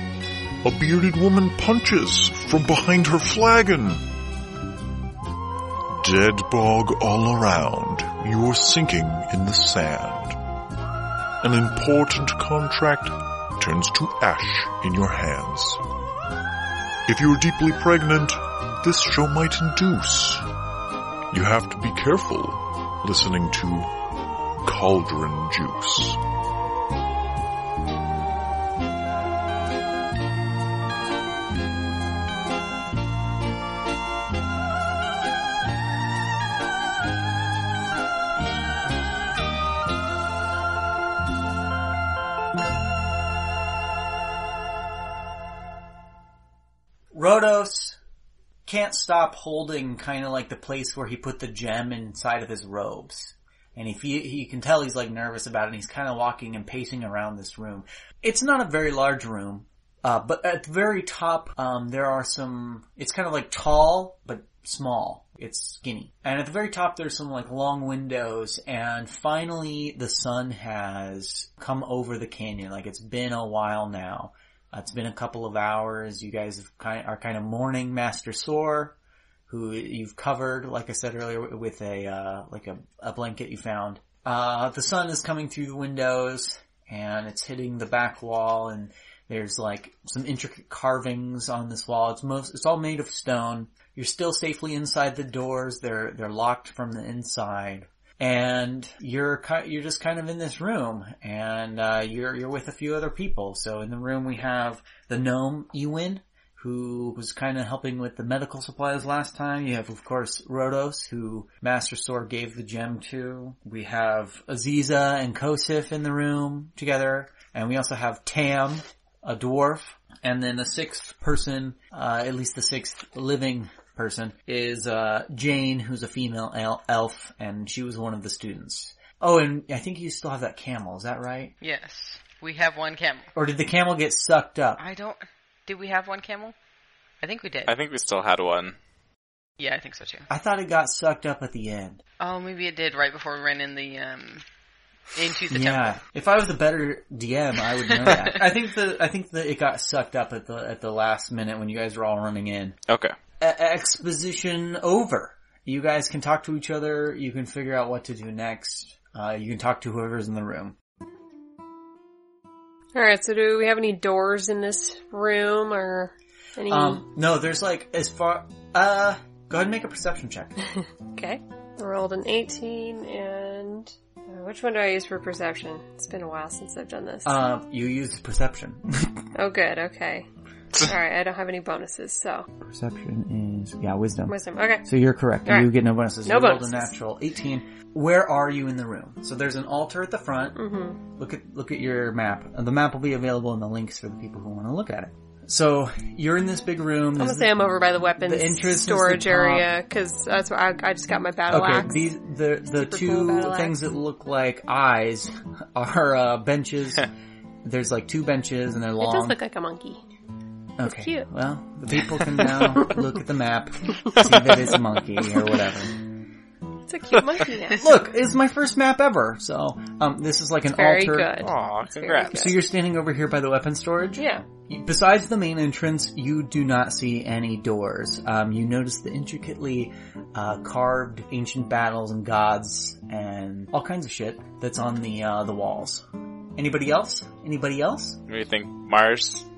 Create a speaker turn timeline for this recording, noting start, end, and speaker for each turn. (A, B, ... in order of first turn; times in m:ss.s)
0:00.6-0:04.0 A
0:05.9-0:10.4 A
0:11.4-0:15.8 A
0:17.1-0:20.5 A
0:21.3-0:23.9 A
0:24.6-0:26.2 A
0:47.1-0:48.0 B
0:48.7-1:19.0 B
1:19.5-2:11.5 B
2:11.6-2:13.3 C
2:13.4-2:14.8 B
2:14.8-2:16.6 C
2:17.2-2:17.8 C
2:17.7-2:18.8 D
2:19.6-2:20.3 C
2:20.3-2:22.0 B
2:22.2-2:24.4 C
2:25.2-2:26.0 C
2:25.5-2:32.8 B
2:32.9-2:33.1 D
2:33.4-2:40.8 B
2:42.9-2:47.0 E
2:46.7-2:50.6 B
2:51.2-2:57.3 E
2:57.2-2:59.3 B
2:59.4-3:00.3 E
3:00.8-3:02.5 E
3:02.6-3:10.6 B
3:04.3-3:04.8 E
3:06.2-3:06.9 E
3:10.6-3:11.0 E
3:11.2-3:17.5 B
3:17.2-3:22.0 E
3:18.2-3:19.7 B
3:21.5-3:27.1 B
3:22.7-3:23.7 E
3:27.6-3:29.4 B
3:29.0-3:30.0 E
3:30.8-3:35.9 B
3:30.8-3:31.3 E
3:36.9-3:37.9 E
3:37.7-3:41.3 B
3:40.8-3:42.5 E
3:41.4-3:42.5 D
3:42.3-3:56.0 B
3:44.2-3:44.4 E
3:56.6-3:58.2 B
3:58.3-3:59.4 D